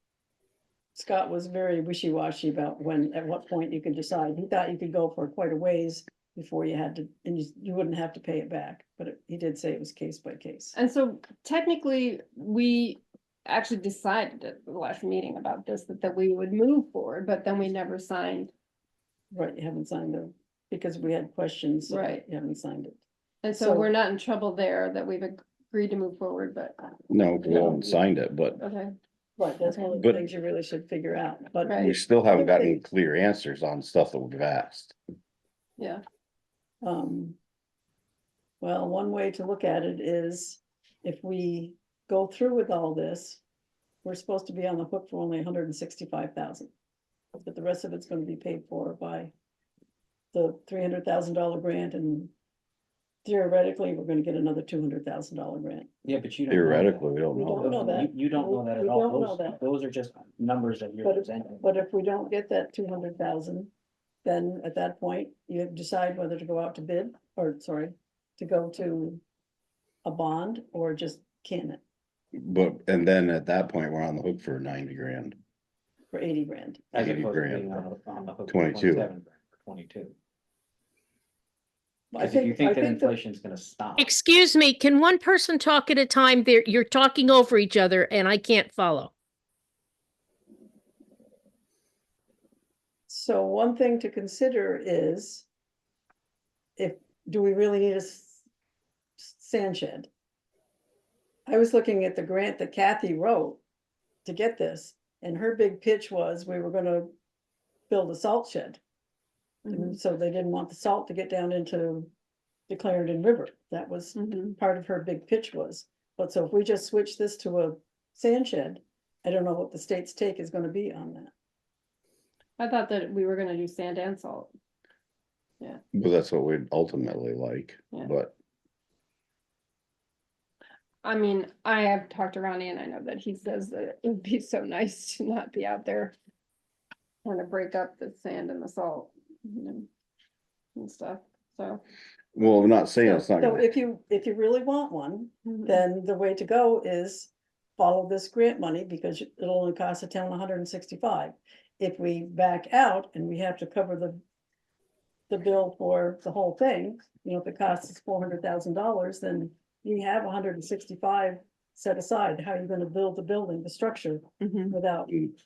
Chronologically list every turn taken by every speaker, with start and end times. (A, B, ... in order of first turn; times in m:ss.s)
0:00.9-0:10.7 A
0:10.8-0:18.5 B
0:19.3-0:23.0 A
0:21.9-0:22.2 B
0:23.4-0:27.9 B
0:23.5-0:23.9 A
0:27.1-0:28.6 C
0:28.6-0:28.9 B
0:29.4-0:32.8 A
0:29.6-0:29.9 B
0:30.0-0:30.2 C
0:31.6-0:31.9 B
0:31.8-0:35.0 C
0:35.8-0:36.0 B
0:36.8-0:37.4 A
0:38.6-0:43.4 A
0:44.0-0:46.7 A
0:47.4-0:49.3 A
0:50.3-0:52.3 A
0:53.2-0:55.9 A
0:56.0-1:01.6 D
0:56.5-0:57.8 C
0:57.4-0:59.6 A
1:01.0-1:03.7 A
1:04.2-1:09.2 A
1:10.0-1:11.8 A
1:12.3-1:15.4 C
1:16.1-1:16.8 A
1:16.9-1:20.1 D
1:16.9-1:17.9 C
1:18.5-1:19.1 C
1:22.1-1:23.1 A
1:22.2-1:24.2 D
1:24.0-1:29.1 E
1:33.1-1:35.5 A
1:36.8-1:38.4 A
1:39.2-1:40.1 A
1:41.5-1:43.6 A
1:44.2-1:47.1 A
1:47.9-1:48.8 A
1:49.6-1:50.0 B
1:49.7-1:52.1 A
1:52.7-2:01.3 A
1:54.1-1:54.6 B
2:02.6-2:04.5 B
2:05.9-2:08.3 C
2:11.0-2:16.1 B
2:17.2-2:19.8 B
2:20.8-2:21.8 B
2:22.3-2:23.7 C
2:23.0-2:34.2 A
2:35.3-2:45.2 A
2:44.4-2:44.8 B